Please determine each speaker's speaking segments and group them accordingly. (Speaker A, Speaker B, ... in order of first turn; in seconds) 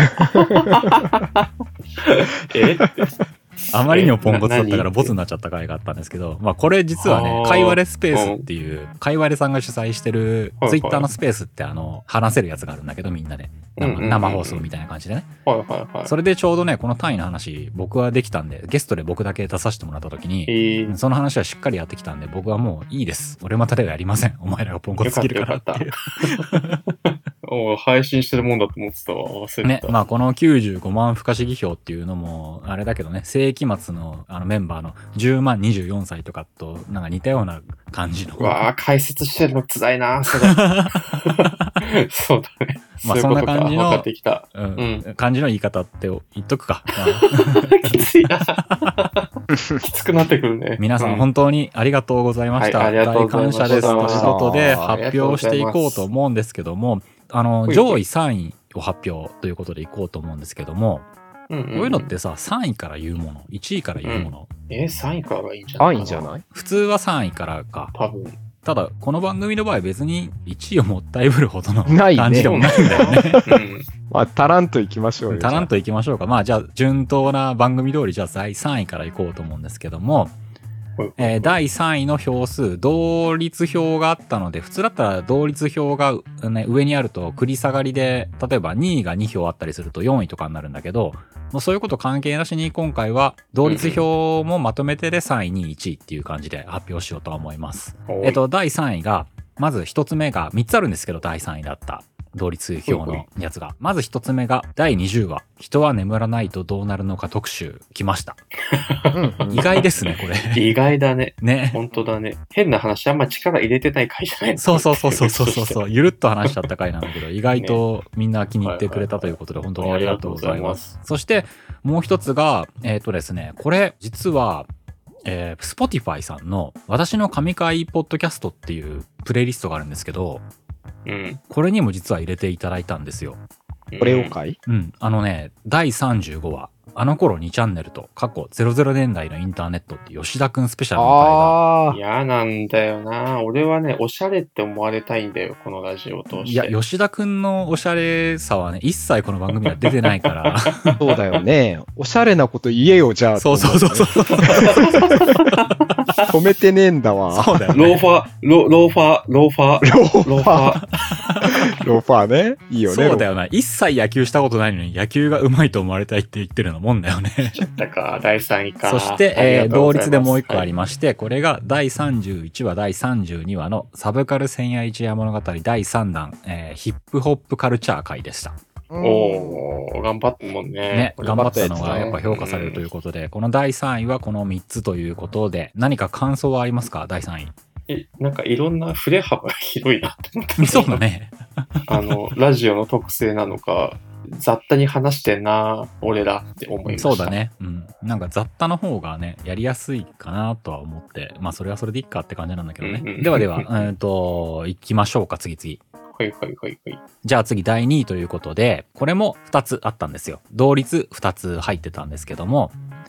Speaker A: 0.2-5.1, 7.0-8.5, 10.6-11.1, 13.8-14.7, 15.4-16.1, 20.5-21.0, 25.0-26.5, 27.1-30.0, 38.4-45.1, 47.0-51.3, 52.6-56.0, 57.7-58.0, 61.5-62.1, 64.0-66.3, 67.9-68.4, 72.4-73.9, 81.0-81.6, 93.6-94.0, 98.1-98.4, 102.9-103.2, 108.7-115.8, 118.6-121.0, 131.1-131.4, 133.9-134.3, 141.9-146.8, 149.6-151.0, 154.3-156.3, 157.7-161.2, 167.5-170.7, 179.0-182.8, 187.9-191.0, 191.9-197.4, 202.8-203.9, 206.1-207.0
Speaker B: 3.7-15.3, 16.1-26.8, 29.6-38.6, 40.4-40.9, 43.0-48.0, 50.8-61.1, 61.7-64.5, 66.5-67.9, 68.6-73.6, 75.3-80.3, 81.2-108.4, 109.5-110.7, 111.4-111.8, 114.6-124.7, 125.2-130.4, 131.5-133.4, 134.7-141.6, 146.4-151.0, 153.4-154.9, 157.3-158.0, 161.2-161.6, 162.9-167.6, 168.8-178.6, 180.9-187.5, 190.6-191.9, 196.9-205.8, 207.2-212.8
Speaker C: 53.7-54.9, 65.8-66.4, 71.9-73.3, 74.1-75.7, 109.1-109.7, 134.0-134.6, 140.9-142.0, 151.0-155.2, 156.3-157.6, 159.8-160.8, 161.5-163.3, 178.9-179.6, 181.3-182.2